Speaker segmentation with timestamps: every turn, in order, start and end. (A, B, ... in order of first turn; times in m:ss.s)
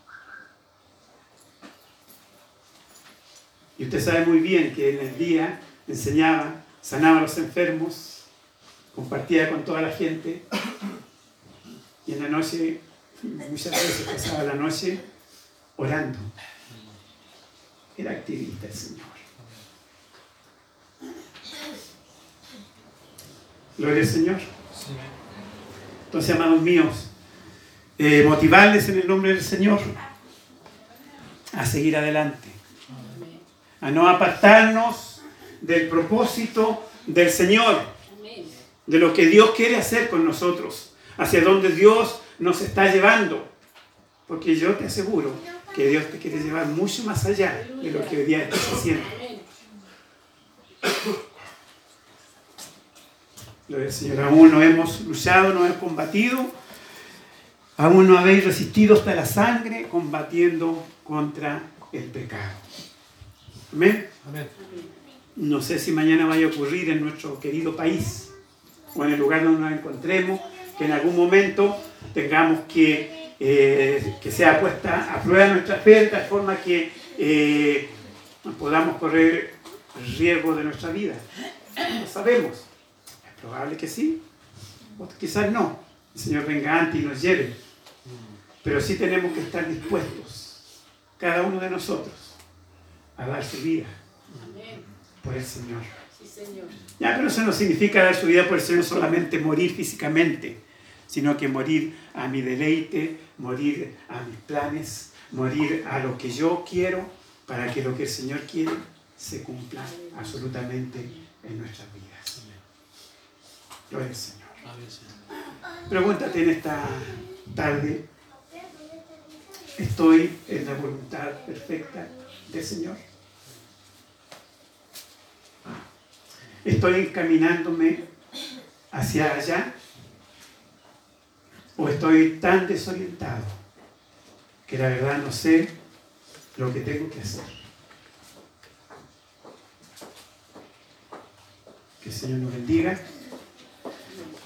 0:03.8-0:08.2 A
0:08.9-0:10.4 A
0:12.0-0:15.0 A
0:15.8-0:16.3 A
0:18.0-0:19.2 A
0:23.8-0:24.5 A
0:26.1-0:27.1 A
0:28.0-0:30.0 A
0:31.5-0:32.6 A
0:32.9-0:33.4 B
0:33.8-0:37.9 A
0:38.1-0:38.6 B
0:38.8-0:43.5 A
0:44.3-0:49.2 A
0:47.5-0:49.5 B
0:53.7-0:56.5 A
0:57.8-1:02.6 A
1:03.7-1:04.1 A
1:04.4-1:05.0 B
1:05.4-1:08.3 A
1:08.9-1:17.9 A
1:18.4-1:21.2 A
1:21.8-1:22.7 A
1:23.2-1:24.2 A
1:25.0-1:27.6 A
1:28.6-1:30.6 A
1:31.2-1:32.4 A
1:33.2-1:34.0 A
1:34.3-1:34.9 B
1:35.2-1:35.9 A
1:36.1-1:36.8 B
1:37.0-1:52.5 A
1:49.8-1:50.5 B
1:53.9-1:54.6 A
1:55.9-1:58.0 A
1:59.8-2:03.0 A
2:06.6-2:08.0 A
2:08.9-2:09.7 A
2:11.8-2:13.6 A
2:14.7-2:15.7 A
2:16.5-2:17.6 A
2:22.0-2:23.0 A
2:24.1-2:24.3 B